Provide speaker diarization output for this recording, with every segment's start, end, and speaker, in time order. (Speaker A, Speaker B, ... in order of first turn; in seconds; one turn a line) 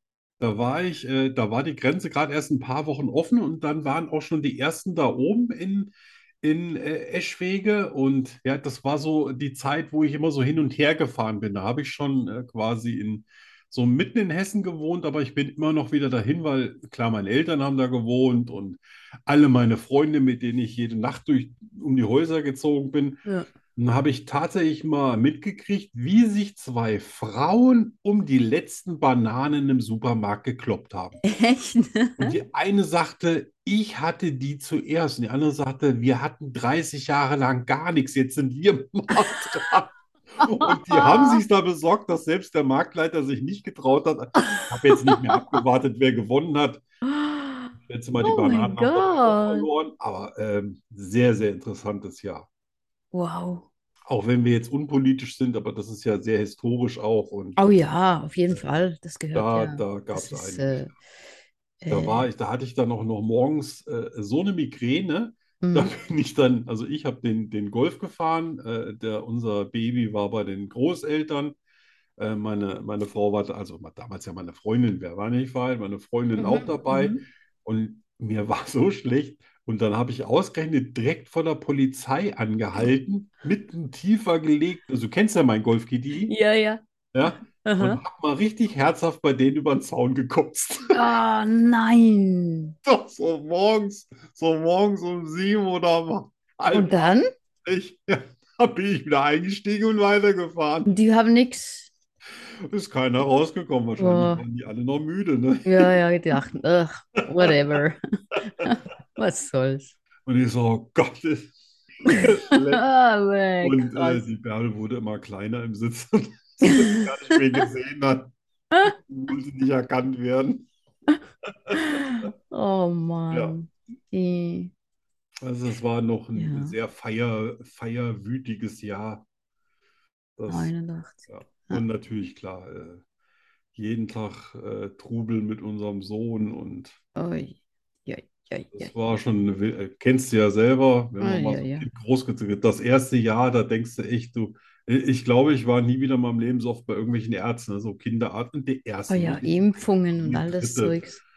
Speaker A: 0.4-23.2
Speaker A: 23.7-31.2
Speaker B: 31.2-32.4
Speaker A: 32.2-46.8
Speaker B: 40.4-41.4
Speaker B: 44.5-45.6
Speaker B: 47.0-49.7
Speaker A: 47.9-52.5
Speaker B: 53.1-53.7
Speaker A: 54.1-57.6
Speaker B: 57.6-60.9
Speaker A: 59.3-60.9
Speaker B: 61.8-62.2
Speaker A: 61.9-71.5
Speaker B: 65.6-65.9
Speaker A: 72.2-86.3
Speaker B: 76.4-77.2
Speaker B: 86.3-86.8
Speaker A: 87.1-91.0
Speaker B: 87.4-88.0
Speaker B: 90.9-92.7
Speaker A: 92.8-96.9
Speaker B: 96.7-97.3
Speaker A: 97.6-100.9
Speaker B: 100.8-101.9
Speaker A: 102.7-105.9
Speaker B: 104.0-104.4
Speaker B: 105.6-109.9
Speaker A: 107.2-107.5
Speaker A: 110.2-112.8
Speaker B: 112.0-114.2
Speaker A: 113.6-120.7
Speaker B: 116.6-117.1
Speaker A: 121.7-122.3
Speaker B: 121.7-124.7
Speaker A: 125.4-129.2
Speaker B: 126.3-126.7
Speaker A: 130.4-130.7
Speaker B: 130.5-131.8
Speaker A: 131.3-133.0
Speaker A: 133.7-137.0
Speaker B: 137.2-138.9
Speaker A: 138.7-151.0
Speaker B: 141.2-141.9
Speaker B: 149.1-151.2